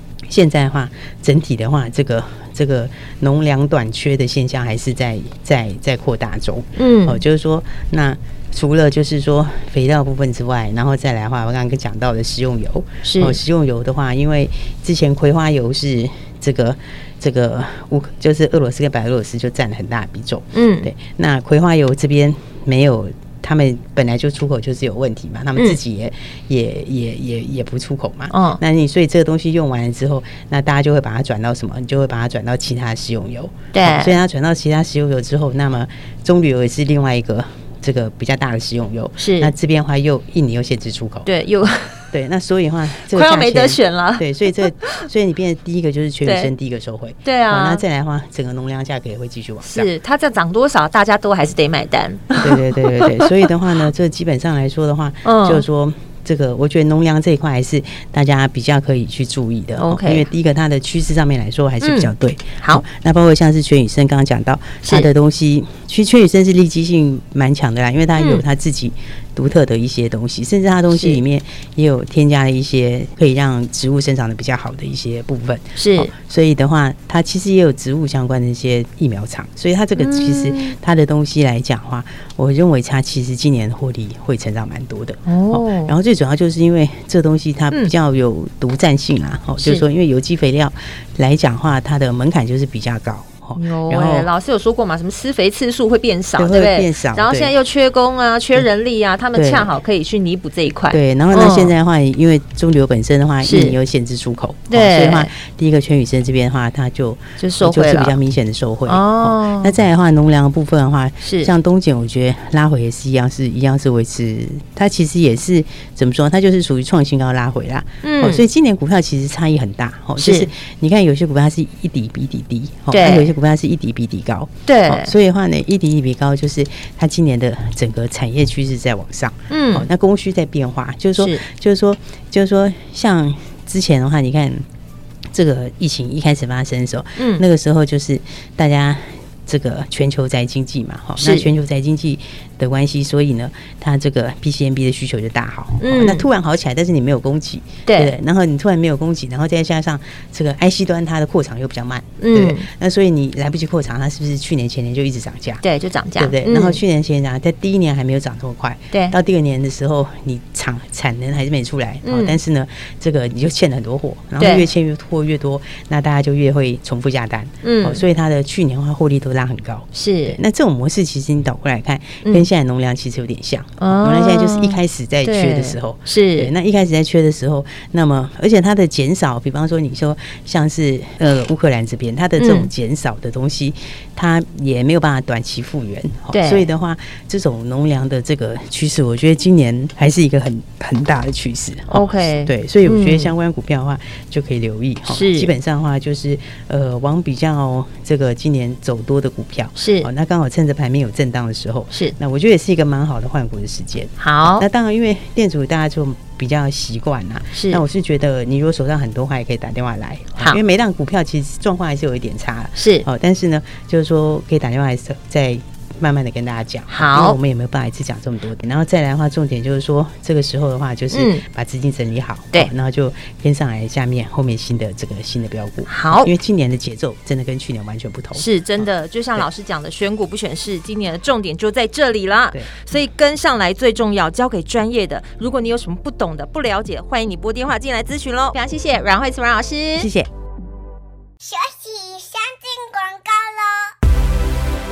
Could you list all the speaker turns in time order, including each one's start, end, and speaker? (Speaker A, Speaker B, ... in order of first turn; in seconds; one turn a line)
Speaker A: 0.3-41.3
Speaker B: 6.8-7.2
Speaker B: 13.0-13.4
Speaker B: 20.5-20.9
Speaker B: 28.3-28.6
Speaker B: 33.7-34.2
Speaker B: 39.2-39.5
Speaker B: 41.2-42.1
Speaker A: 42.1-49.9
Speaker B: 43.1-45.1
Speaker B: 46.2-46.5
Speaker B: 47.2-47.8
Speaker B: 49.6-53.3
Speaker A: 52.4-94.3
Speaker B: 55.2-55.6
Speaker B: 59.8-60.3
Speaker B: 61.8-62.8
Speaker B: 64.8-65.1
Speaker B: 68.2-68.4
Speaker B: 70.9-71.2
Speaker B: 75.8-76.1
Speaker B: 80.0-80.8
Speaker B: 85.2-85.9
Speaker B: 93.6-101.7
Speaker A: 96.4-97.5
Speaker A: 99.3-99.7
Speaker A: 100.9-134.6
Speaker B: 103.4-103.8
Speaker B: 104.7-105.3
Speaker B: 107.4-108.1
Speaker B: 108.9-109.7
Speaker B: 111.2-111.5
Speaker B: 118.0-118.4
Speaker B: 120.2-120.5
Speaker B: 122.9-123.3
Speaker B: 124.7-125.1
Speaker B: 129.5-129.9
Speaker B: 131.2-131.4
Speaker A: 135.3-155.6
Speaker B: 137.2-137.4
Speaker B: 141.2-141.5
Speaker B: 145.8-146.3
Speaker B: 147.8-148.1
Speaker B: 152.2-152.7
Speaker B: 155.6-156.8
Speaker A: 156.2-229.4
Speaker B: 162.0-162.4
Speaker B: 164.4-164.7
Speaker B: 167.6-168.0
Speaker B: 169.9-170.4
Speaker B: 173.8-176.5
Speaker B: 182.4-182.7
Speaker B: 186.3-186.7
Speaker B: 191.9-193.3
Speaker B: 195.1-195.5
Speaker B: 199.8-200.1
Speaker B: 204.2-204.6
Speaker B: 207.5-207.8
Speaker B: 212.8-213.1
Speaker B: 216.9-217.4
Speaker B: 221.1-221.4
Speaker B: 225.9-226.3
Speaker B: 228.3-240.1
Speaker A: 239.9-240.3
Speaker C: 241.4-243.9